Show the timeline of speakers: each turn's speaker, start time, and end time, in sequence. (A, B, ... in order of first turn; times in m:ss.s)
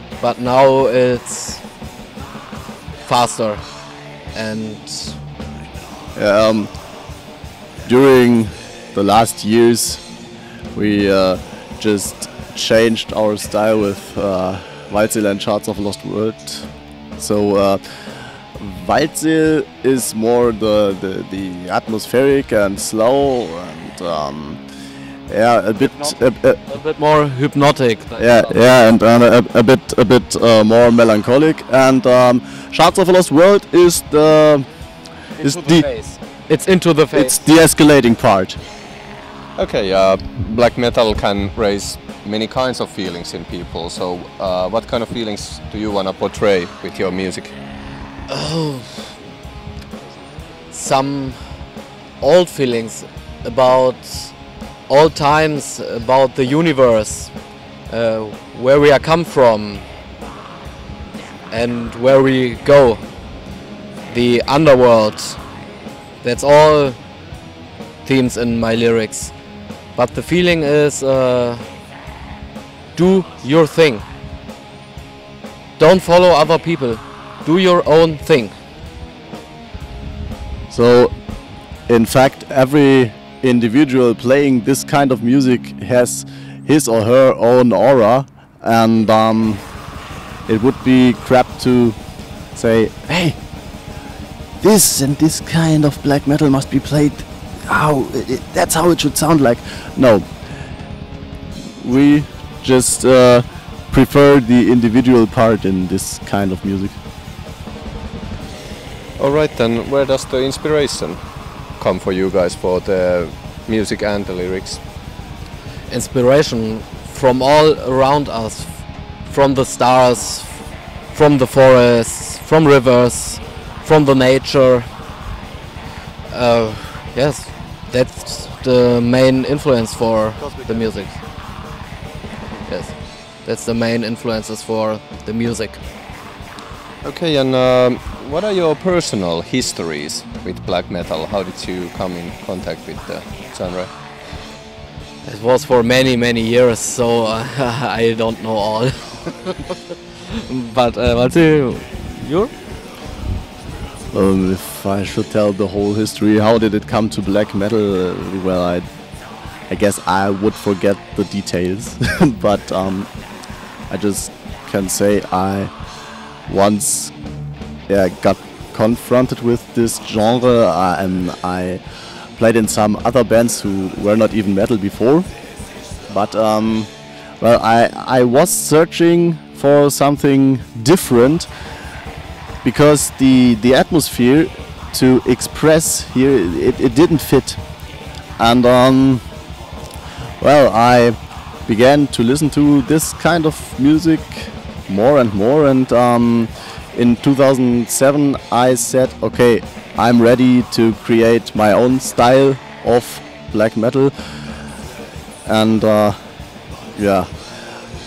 0:00.2-0:01.6 A
0:03.0-0:03.6 A
0:04.3-0:05.2 A
0:06.2-0:06.7 B
0:07.8-0:10.0 B
0:10.7-0:17.8 B
0:18.5-0:24.6 B
0:25.3-0:26.6 B
0:26.7-0:28.6 A
0:28.2-0:34.7 B
0:35.4-0:37.4 A
0:35.4-0:35.9 B
0:37.1-0:38.6 B
0:39.6-0:47.5 C
0:48.3-0:49.1 A
0:50.7-0:51.4 A
0:52.2-0:54.3 A
0:54.9-0:57.3 A
0:57.9-0:59.8 A
1:01.5-1:03.0 A
1:04.1-1:05.4 A
1:06.2-1:07.0 A
1:08.0-1:09.3 A
1:10.0-1:11.6 A
1:13.0-1:14.0 A
1:15.8-1:18.5 A
1:20.7-1:21.1 B
1:21.9-1:29.6 B
1:30.5-1:32.0 B
1:32.5-1:33.4 B
1:34.6-1:40.3 B
1:41.8-1:47.0 B
1:49.2-1:51.2 C
1:51.8-1:54.8 C
1:55.9-2:04.9 A
2:06.3-2:11.2 A
2:12.6-2:15.8 A
2:17.0-2:23.9 C
2:25.2-2:32.5 A
2:34.1-2:38.9 B
2:39.7-2:43.1 B
2:43.9-2:45.7 B
2:46.5-2:47.1 B
2:47.9-2:51.8 B
2:52.4-2:55.3 B
2:56.1-3:01.5 B
3:02.6-3:07.6 B
3:08.4-3:09.2 B
3:10.4-3:24.1 B
3:25.4-3:26.2 B
3:26.9-3:27.3 B